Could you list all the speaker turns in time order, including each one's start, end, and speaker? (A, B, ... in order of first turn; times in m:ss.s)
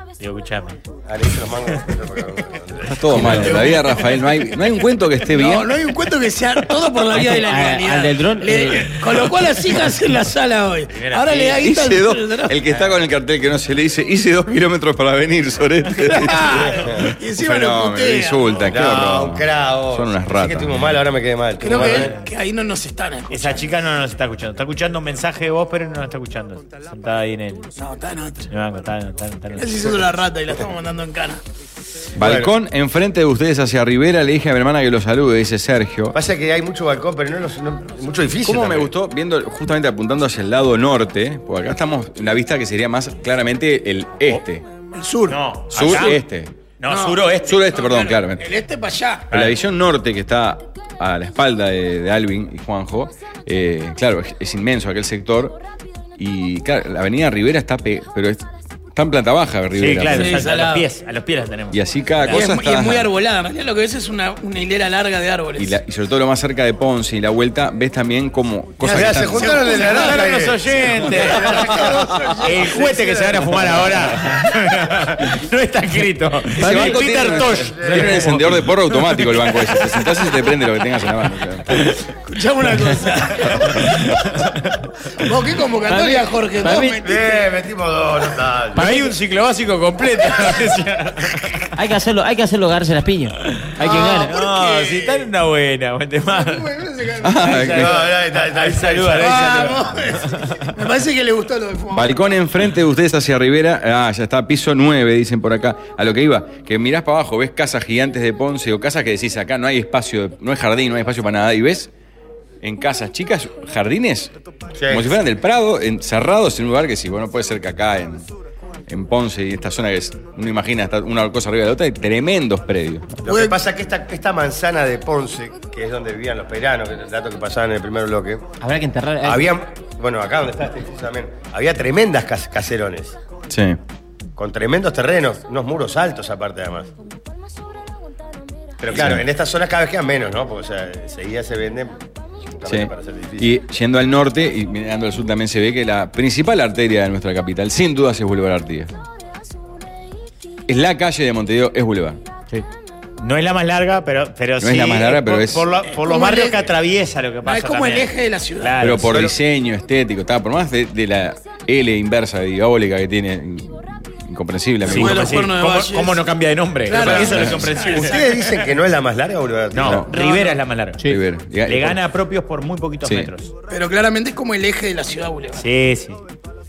0:00.2-0:00.8 A
0:01.1-0:03.1 B
0:02.9-0:05.9 C
0:03.1-0:04.0 D
0:03.2-0:03.7 A
0:05.3-0:12.5 D
0:07.1-0:08.9 E
0:10.9-0:11.6 A
0:11.6-0:20.8 C
0:12.7-0:12.9 A
0:16.1-0:18.6 D
0:16.8-0:17.1 B
0:18.6-0:22.1 B
0:21.6-0:23.7 D
0:23.3-0:27.7 A
0:27.8-0:28.5 D
0:28.5-0:29.9 A
0:29.6-0:31.4 D
0:32.2-0:36.2 C
0:32.2-0:32.5 B
0:36.1-0:38.9 B
0:38.4-0:44.6 C
0:44.9-0:46.1 D
0:45.3-0:46.2 A
0:45.7-0:46.5 C
0:46.8-0:47.6 A
0:46.9-0:49.3 D
0:47.4-0:48.5 C
0:49.3-0:49.6 A
0:49.3-0:55.6 C
0:56.2-0:58.4 C
0:58.9-1:00.5 C
0:59.7-1:02.4 A
1:00.1-1:00.9 D
1:01.7-1:03.1 C
1:02.2-1:05.7 D
1:05.6-1:09.6 C
1:08.8-1:14.1 B
1:09.2-1:10.4 D
1:09.7-1:11.9 A
1:11.3-1:11.8 D
1:12.4-1:19.6 A
1:16.6-1:21.9 C
1:17.3-1:18.3 B
1:22.1-1:24.2 D
1:23.5-1:24.8 A
1:25.1-1:27.4 D
1:25.9-1:27.0 E
1:27.0-1:28.9 B
1:28.7-1:31.7 A
1:31.7-1:34.3 E
1:33.8-1:35.3 D
1:34.0-1:36.7 A
1:36.3-1:37.8 D
1:37.2-1:37.9 C
1:37.4-1:40.7 A
1:37.7-1:39.7 B
1:39.2-1:42.2 D
1:41.9-1:51.9 C
1:52.6-1:54.3 C
1:54.7-1:55.2 B
1:54.9-1:58.2 C
1:58.9-2:03.2 C
2:03.2-2:08.4 B
2:03.2-2:03.6 D
2:08.6-2:09.5 E
2:09.2-2:13.2 B
2:13.5-2:13.8 C
2:14.4-2:16.9 B
2:18.8-2:22.0 B
2:18.9-2:19.2 C
2:22.6-2:23.6 B
2:22.6-2:28.9 C
2:30.7-2:32.2 C
2:33.2-2:39.2 A
2:34.6-2:35.7 C
2:35.9-2:36.7 D
2:37.4-2:38.8 D
2:38.8-2:45.4 C
2:39.1-2:39.4 B
2:44.8-2:48.4 A
2:44.9-2:46.2 D
2:46.8-2:48.4 D
2:47.0-2:47.3 B
2:47.0-2:47.6 C
2:47.9-2:50.1 B
2:49.7-2:51.0 A
2:49.8-2:50.1 C
2:50.1-2:50.6 D
2:51.0-2:52.0 C
2:51.6-2:53.5 A
2:53.0-2:53.3 C
2:53.7-2:55.6 D
2:55.6-2:56.2 A